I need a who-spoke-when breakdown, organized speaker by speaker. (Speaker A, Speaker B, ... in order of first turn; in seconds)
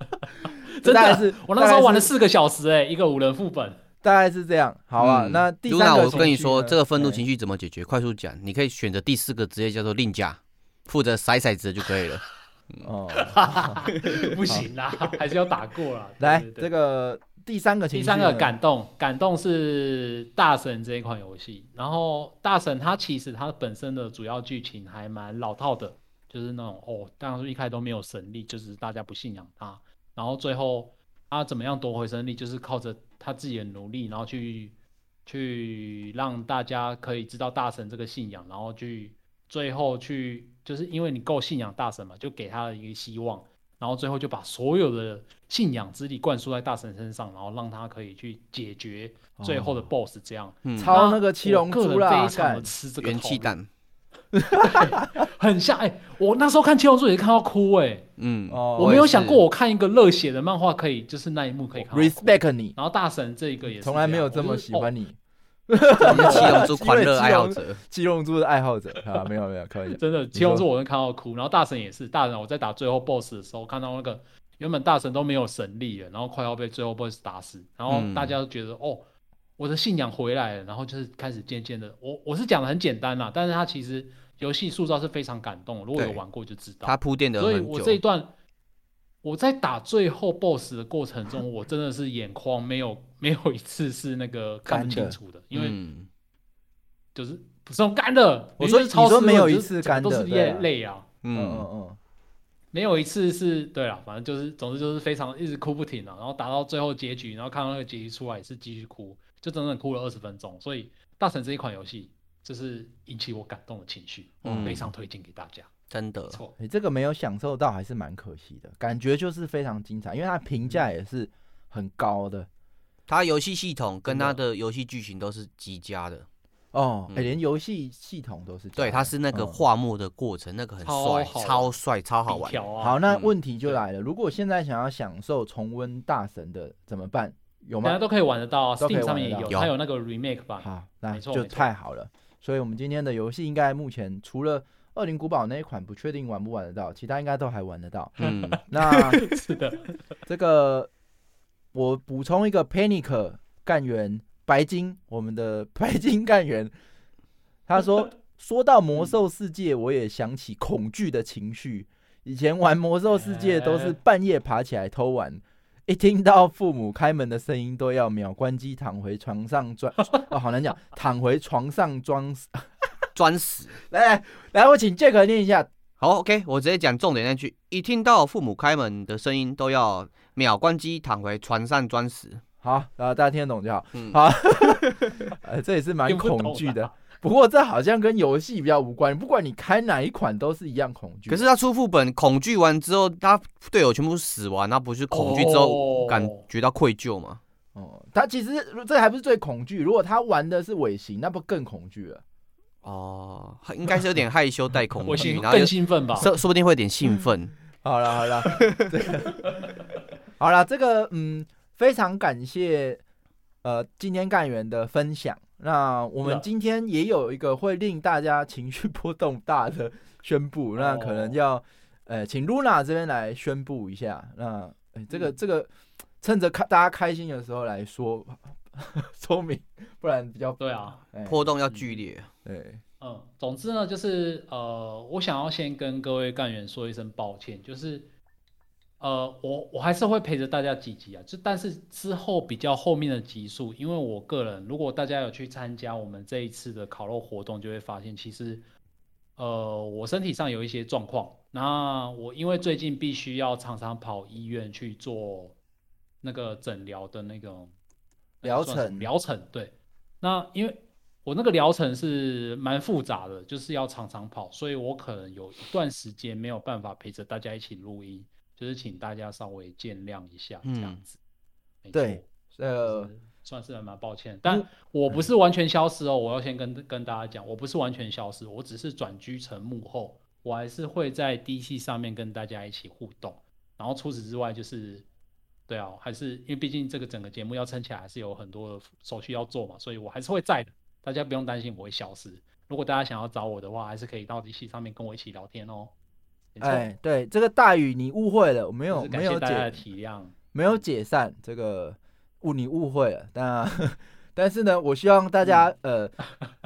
Speaker A: 0.5-3.8, 6.0-6.3, 13.1-16.7, 17.9-53.6, 54.6-58.1, 58.8-64.9, 66.0-66.7, 69.9-88.4, 89.2-95.8, 97.1-101.1, 102.7-115.7, 116.3-116.5, 124.1-124.3, 130.8-131.8, 132.3-133.0, 137.8-141.7, 148.2-149.9, 158.9-159.2, 163.1-164.0, 186.1-187.0, 195.1-196.4, 205.0-206.3, 220.7-221.4, 230.6-231.0, 231.7-232.0, 233.0-238.1, 239.0-248.7, 249.4-255.6, 256.2-257.8, 258.4-271.2, 271.8-285.1, 285.7-295.9, 296.5-296.9, 298.9-300.7
Speaker B: 0.8-2.1, 4.0-7.2, 12.8-13.8, 16.2-18.5, 49.4-49.9, 50.8-52.7, 54.3-54.8, 58.5-59.0, 61.8-62.8, 63.8-65.2, 65.7-70.6, 94.7-95.2, 98.6-100.7, 101.3-102.0, 114.4-114.8, 116.6-122.5, 126.7-129.6, 132.8-138.0, 138.8-139.5, 140.6-148.2, 148.7-149.2, 150.3-150.9, 151.7-156.7, 157.7-172.7, 173.9-175.7, 182.6-191.5, 197.7-202.2, 207.8-209.4, 210.4-213.0, 213.6-225.7, 226.2-231.5, 232.4-232.8, 258.4-259.1, 271.9-273.1, 274.4-275.2, 296.6-299.8, 300.5-306.1
Speaker C: 5.0-12.8, 50.6-51.0, 53.0-53.7, 58.2-59.4, 66.0-67.8, 77.9-78.4, 85.9-86.2, 86.8-88.0, 95.5-96.1, 101.2-101.7, 114.4-114.9, 115.9-116.4, 123.1-126.2, 127.1-127.3, 128.8-133.3, 139.5-139.7, 148.2-148.6, 173.1-173.8, 176.0-182.4, 183.9-185.2, 191.3-197.4, 202.8-207.5, 208.6-208.8, 231.2-232.3, 270.6-271.0